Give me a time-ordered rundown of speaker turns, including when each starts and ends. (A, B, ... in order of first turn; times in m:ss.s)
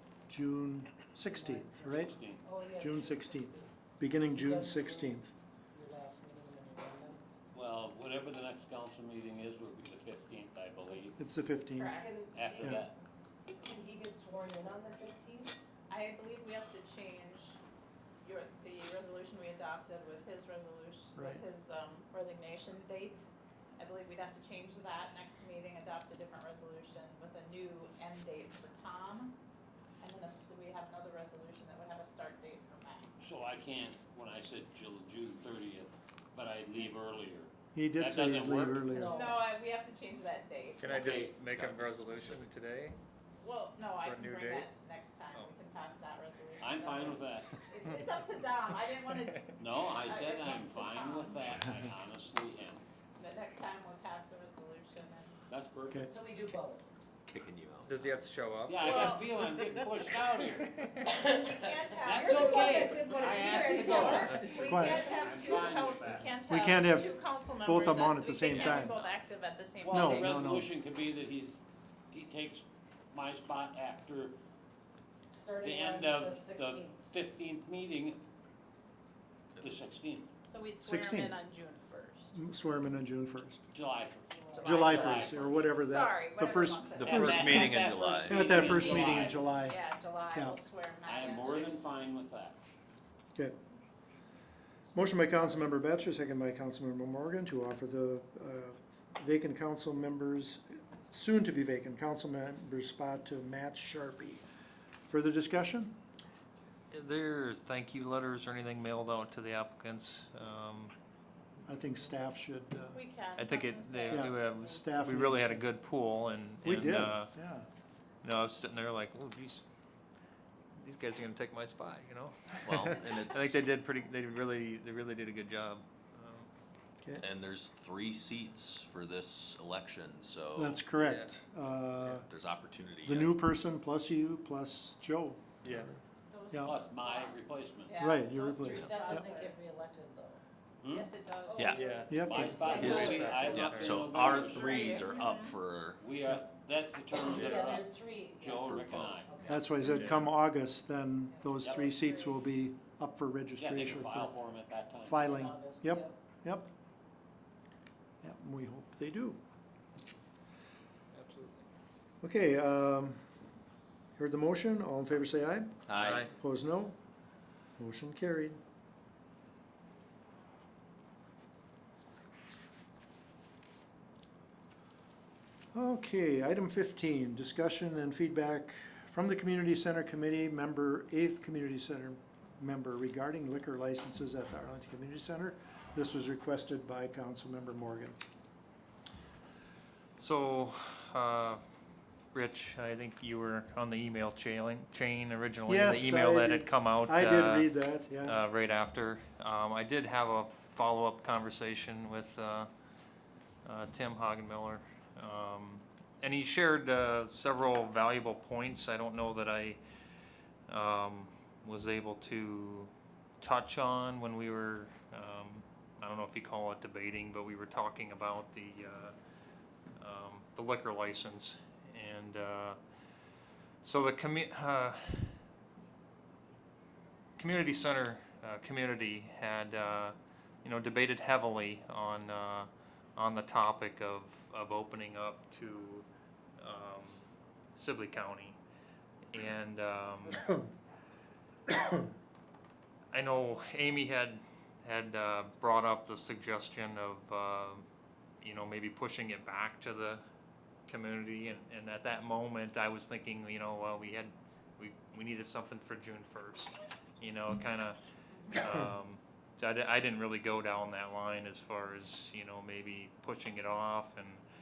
0:00.3-0:02.1 A
0:01.3-0:03.7 B
0:01.8-0:02.5 C
0:02.8-0:05.3 A
0:04.2-0:05.2 B
0:05.7-0:07.2 B
0:07.5-0:11.2 C
0:11.2-0:12.0 A
0:11.8-0:12.3 D
0:12.0-0:12.9 B
0:12.4-0:12.9 C
0:13.5-0:15.5 B
0:15.9-0:17.6 D
0:18.2-0:23.2 D
0:21.2-0:21.4 A
0:23.8-0:29.4 D
0:30.0-0:33.1 D
0:33.2-0:38.8 C
0:37.7-0:39.2 A
0:38.4-0:39.4 B
0:39.0-0:41.0 D
0:40.8-0:43.0 E
0:40.9-0:41.8 C
0:43.4-0:51.6 D
0:44.0-0:44.7 E
0:46.6-0:47.6 C
0:49.6-0:52.8 C
0:53.2-0:55.4 D
0:55.5-0:56.1 C
0:56.0-0:56.9 B
0:57.3-0:57.9 F
0:57.8-0:59.2 E
0:58.7-1:00.7 C
0:58.8-0:59.3 D
1:00.2-1:01.0 E
1:01.0-1:05.6 B
1:01.1-1:10.5 D
1:02.1-1:06.3 C
1:04.6-1:05.1 A
1:06.5-1:09.0 A
1:09.8-1:14.4 C
1:09.9-1:10.7 A
1:15.3-1:17.1 B
1:15.6-1:18.2 C
1:19.6-1:20.3 C
1:20.4-1:22.4 D
1:20.8-1:21.4 A
1:22.3-1:23.6 A
1:23.7-1:25.5 C
1:24.3-1:25.5 B
1:24.5-1:27.7 D
1:24.6-1:30.6 A
1:27.0-1:28.5 F
1:27.0-1:29.4 C
1:28.3-1:31.8 D
1:31.0-1:32.6 C
1:34.9-1:44.4 A
1:45.1-1:45.9 A
1:46.9-1:50.9 E
1:51.7-1:53.0 A
1:52.9-1:54.4 D
1:53.4-1:57.3 E
1:54.1-1:55.7 A
1:56.6-1:57.7 A
1:58.2-1:59.6 E
2:00.8-2:06.5 E
2:02.6-2:03.6 F
2:07.2-2:10.8 F
2:10.6-2:12.3 A
2:10.9-2:11.4 E
2:12.1-2:13.4 F
2:13.0-2:16.0 A
2:15.6-2:15.9 E
2:16.3-2:19.6 D
2:16.6-2:18.1 C
2:18.0-2:19.3 A
2:18.5-2:20.4 B
2:20.8-2:21.1 C
2:20.9-2:25.6 D
2:21.5-2:23.5 B
2:21.6-2:21.9 F
2:21.7-2:24.0 E
2:22.1-2:22.6 A
2:22.2-2:25.2 C
2:22.7-2:26.0 F
2:26.0-2:29.4 C
2:27.2-2:29.9 B
2:27.3-2:27.6 F
2:28.7-2:29.2 F
2:29.5-2:34.4 A
2:29.8-2:30.2 E
2:31.6-2:32.0 C
2:31.7-2:32.4 D
2:33.6-2:35.2 C
2:35.0-2:36.7 A
2:35.2-2:36.2 B
2:38.2-2:39.4 A
2:41.1-2:41.7 E
2:42.2-2:43.2 A
2:44.2-2:47.0 A
2:45.9-2:46.3 F
2:46.0-2:46.3 E
2:47.8-2:48.6 A
2:55.7-3:08.2 A
3:10.2-3:11.6 E
3:12.3-3:22.7 E
3:15.7-3:18.4 A
3:23.6-3:29.8 E
3:30.7-3:32.9 E
3:33.4-3:39.1 E
3:40.0-3:42.8 E
3:43.8-3:45.4 E
3:47.4-3:56.1 E
3:56.6-3:57.2 E
3:57.7-3:58.6 E
3:59.3-4:00.6 E
4:03.1-4:07.9 E
4:08.4-4:10.2 E
4:10.9-4:18.0 E
4:18.5-4:24.4 E